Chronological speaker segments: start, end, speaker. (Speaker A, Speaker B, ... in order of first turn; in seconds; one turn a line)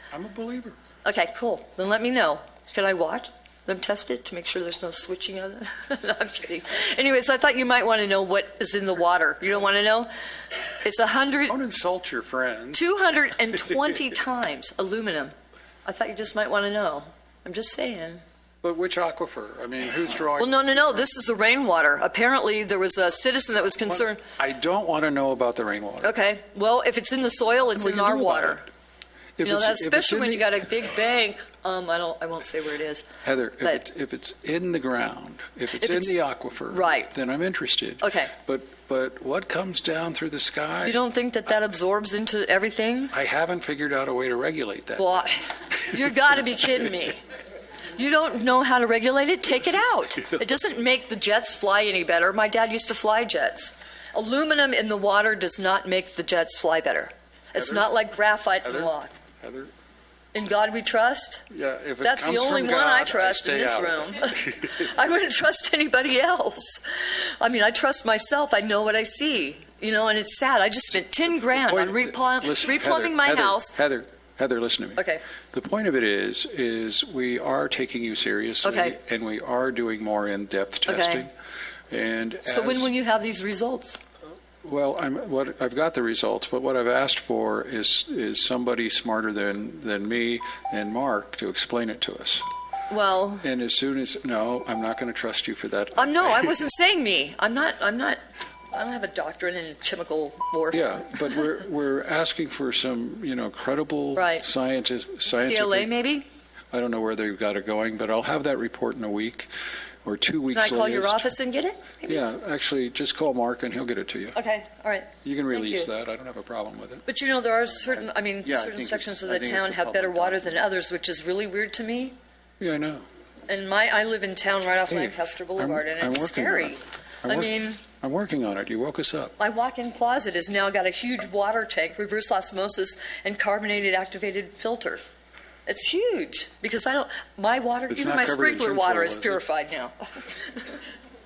Speaker A: 0.1-0.8
Speaker B: 1.0-10.1
Speaker B: 10.8-11.5
Speaker A: 11.5-12.9
Speaker B: 12.7-15.3
Speaker B: 15.8-18.2
Speaker A: 18.6-21.1
Speaker B: 20.4-24.2
Speaker A: 23.9-26.2
Speaker B: 26.0-28.6
Speaker A: 27.8-28.7
Speaker A: 29.4-30.7
Speaker B: 29.4-33.1
Speaker A: 33.2-41.0
Speaker B: 35.8-36.1
Speaker B: 36.7-37.1
Speaker B: 38.0-38.3
Speaker B: 40.9-43.1
Speaker A: 43.1-45.2
Speaker B: 45.0-47.2
Speaker B: 48.0-59.1
Speaker A: 57.5-57.9
Speaker A: 58.6-59.7
Speaker B: 60.3-61.5
Speaker A: 61.5-64.7
Speaker B: 62.0-73.8
Speaker A: 71.4-81.3
Speaker B: 75.0-75.2
Speaker B: 78.6-79.0
Speaker B: 80.9-81.3
Speaker A: 81.9-82.9
Speaker B: 82.5-84.0
Speaker A: 84.6-92.5
Speaker B: 92.9-93.5
Speaker A: 93.4-96.6
Speaker B: 96.0-98.2
Speaker B: 98.7-101.1
Speaker A: 100.7-105.9
Speaker B: 104.2-104.5
Speaker B: 105.3-106.3
Speaker A: 106.7-109.5
Speaker A: 110.0-111.3
Speaker B: 110.5-112.2
Speaker A: 112.0-114.4
Speaker B: 114.3-115.9
Speaker A: 115.2-117.1
Speaker B: 117.1-122.2
Speaker A: 118.0-120.4
Speaker A: 122.6-123.1
Speaker B: 123.5-127.8
Speaker A: 124.9-129.3
Speaker B: 129.4-135.0
Speaker B: 135.7-140.8
Speaker A: 137.9-139.4